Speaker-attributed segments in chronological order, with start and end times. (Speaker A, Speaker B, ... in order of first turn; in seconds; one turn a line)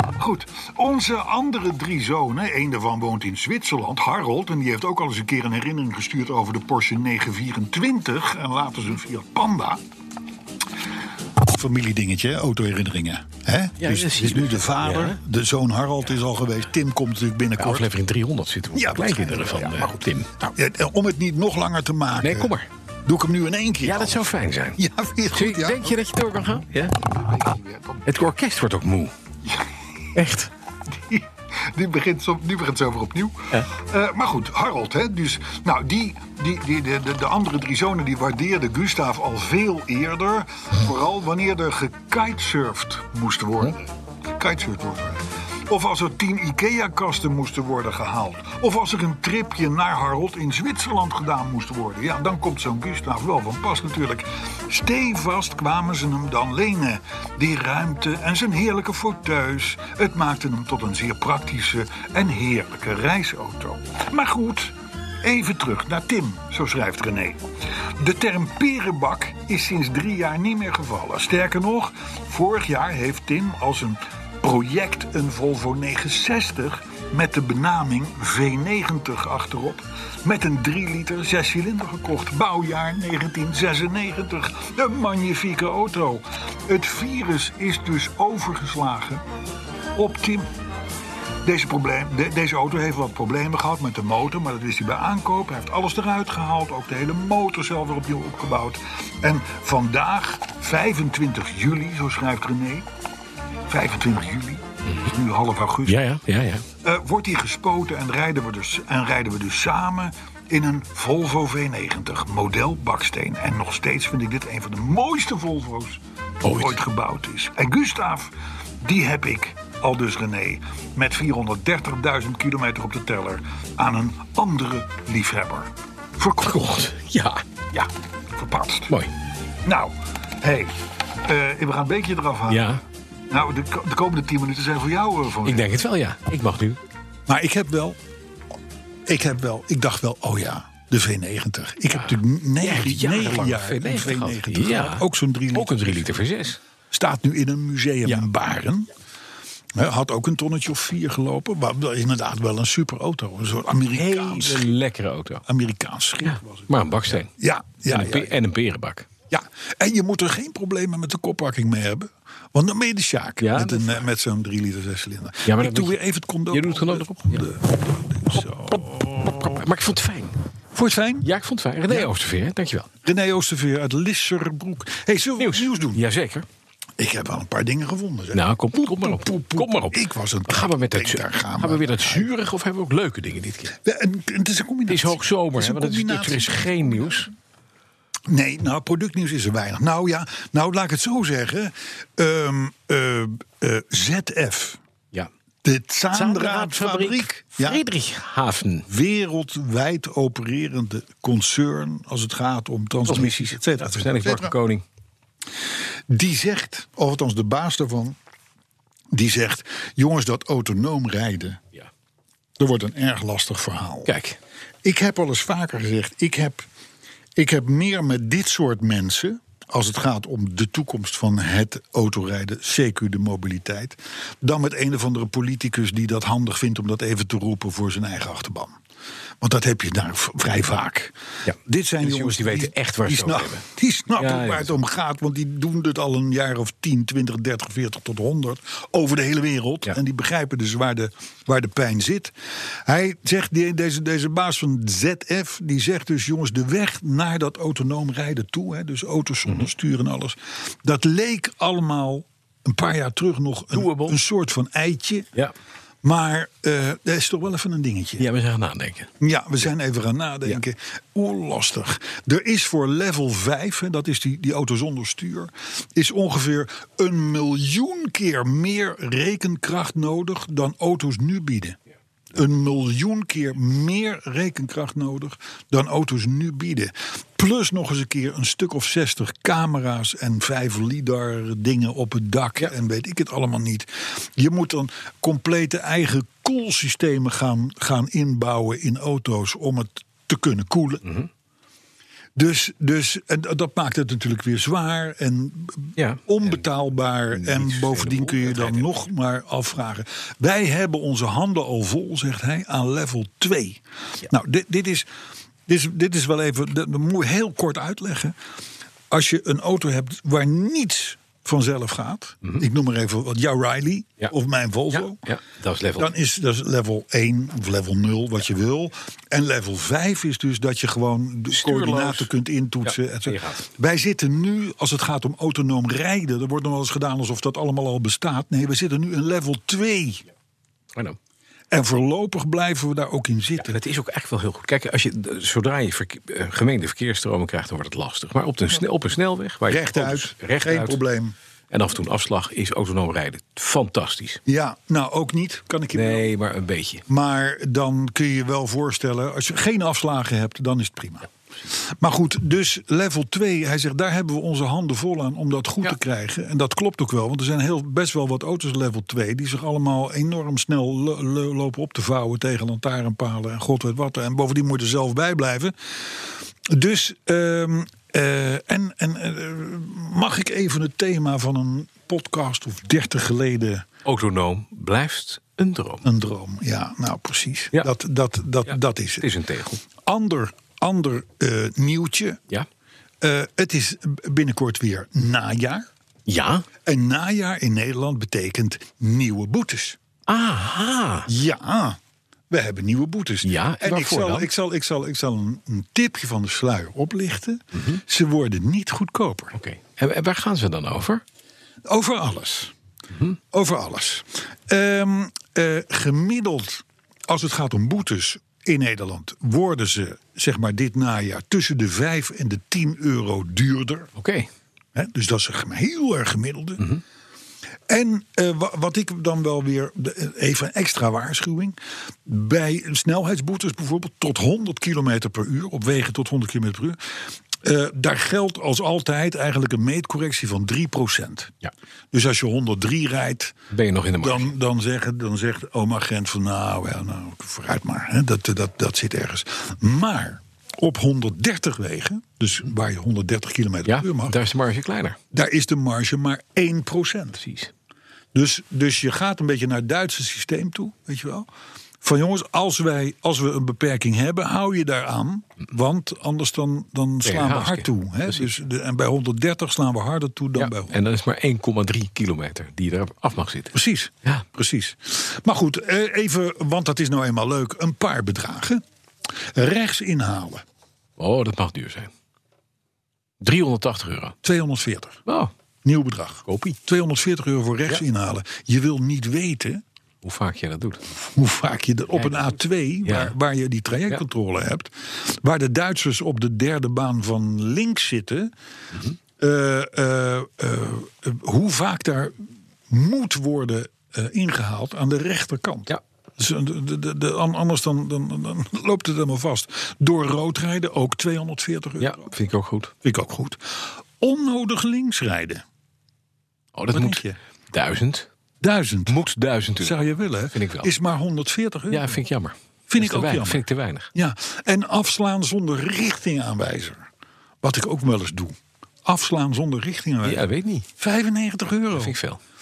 Speaker A: 0.2-9.8
Speaker A: 11.4-17.9
Speaker B: 13.8-15.2
Speaker B: 17.6-20.5
Speaker A: 18.7-22.5
Speaker B: 22.2-22.7
Speaker A: 23.1-26.0
Speaker B: 23.8-24.8
Speaker B: 25.3-27.1
Speaker A: 27.0-28.0
Speaker B: 28.0-29.1
Speaker B: 30.1-30.5
Speaker A: 30.9-67.4
Speaker A: 68.0-89.2
Speaker A: 89.9-90.5
Speaker A: 91.4-102.9
Speaker A: 103.7-106.0
Speaker B: 105.9-106.6
Speaker A: 106.8-126.6
Speaker B: 116.4-116.8
Speaker B: 126.4-127.4
Speaker A: 127.7-128.9
Speaker A: 129.6-132.7
Speaker B: 132.5-132.8
Speaker A: 133.3-135.7
Speaker B: 135.4-136.8
Speaker A: 137.3-138.0
Speaker A: 139.1-146.2
Speaker B: 141.9-146.6
Speaker A: 146.9-148.9
Speaker A: 149.7-154.7
Speaker B: 153.9-155.4
Speaker A: 155.5-156.7
Speaker B: 156.2-157.3
Speaker A: 157.3-158.3
Speaker B: 157.9-159.1
Speaker A: 159.3-169.6
Speaker B: 163.4-164.1
Speaker B: 165.4-166.0
Speaker B: 166.5-167.5
Speaker B: 168.3-170.4
Speaker A: 170.7-171.3
Speaker B: 171.2-172.9
Speaker A: 173.0-176.0
Speaker B: 175.4-176.4
Speaker A: 177.0-182.3
Speaker B: 178.3-183.8
Speaker A: 183.8-187.3
Speaker B: 184.9-187.3
Speaker A: 188.3-194.8
Speaker A: 195.6-197.8
Speaker B: 196.1-198.9
Speaker A: 198.9-204.5
Speaker B: 203.1-204.8
Speaker A: 206.1-208.2
Speaker A: 209.1-211.6
Speaker A: 212.6-214.1
Speaker B: 214.1-214.4
Speaker A: 214.8-216.7
Speaker A: 217.4-228.8
Speaker A: 229.4-242.3
Speaker B: 231.4-233.6
Speaker B: 234.2-234.7
Speaker A: 242.9-255.3
Speaker B: 253.7-254.2
Speaker A: 256.0-258.2
Speaker B: 258.2-259.1
Speaker A: 259.2-271.8
Speaker A: 272.3-291.0
Speaker A: 292.4-305.1
Speaker B: 296.0-296.5
Speaker B: 297.3-299.0
Speaker A: 305.7-308.4
Speaker A: 309.1-315.2
Speaker B: 314.9-316.1
Speaker A: 316.0-330.2
Speaker B: 321.5-322.3
Speaker B: 322.8-323.7
Speaker A: 331.7-333.8
Speaker B: 333.6-341.0
Speaker A: 339.7-341.4
Speaker B: 341.7-344.4
Speaker A: 344.4-346.3
Speaker B: 345.9-347.0
Speaker A: 347.1-373.9
Speaker B: 374.1-376.1
Speaker A: 376.0-379.3
Speaker B: 379.2-379.8
Speaker A: 380.1-382.4
Speaker A: 383.2-385.9
Speaker B: 386.3-386.6
Speaker A: 386.9-390.0
Speaker B: 390.3-391.3
Speaker A: 391.3-392.0
Speaker A: 392.5-399.6
Speaker B: 393.4-394.5
Speaker B: 397.7-398.0
Speaker B: 399.6-401.2
Speaker A: 401.9-402.7
Speaker A: 403.5-414.1
Speaker B: 414.1-414.5
Speaker A: 414.9-416.9
Speaker A: 417.9-427.0
Speaker A: 427.6-431.5
Speaker A: 432.1-433.6
Speaker B: 433.7-434.5
Speaker A: 434.2-444.4
Speaker B: 443.9-445.2
Speaker A: 445.3-447.4
Speaker B: 447.4-447.7
Speaker A: 448.3-451.5
Speaker A: 452.0-461.0
Speaker B: 457.2-458.5
Speaker B: 460.6-463.7
Speaker A: 463.7-468.8
Speaker A: 469.5-470.6
Speaker B: 471.2-472.1
Speaker B: 473.4-474.4
Speaker A: 474.4-475.2
Speaker A: 475.8-479.8
Speaker B: 476.5-476.8
Speaker B: 480.2-481.0
Speaker A: 481.2-488.5
Speaker B: 482.1-482.5
Speaker B: 483.0-483.3
Speaker A: 489.4-502.3
Speaker B: 502.0-502.9
Speaker A: 503.0-505.6
Speaker B: 506.7-508.3
Speaker A: 506.9-507.4
Speaker A: 508.6-509.2
Speaker B: 509.1-510.0
Speaker A: 509.8-512.2
Speaker B: 510.5-510.9
Speaker B: 511.9-514.1
Speaker A: 512.9-517.1
Speaker A: 517.6-520.4
Speaker B: 520.2-520.9
Speaker A: 521.0-522.1
Speaker B: 521.9-522.4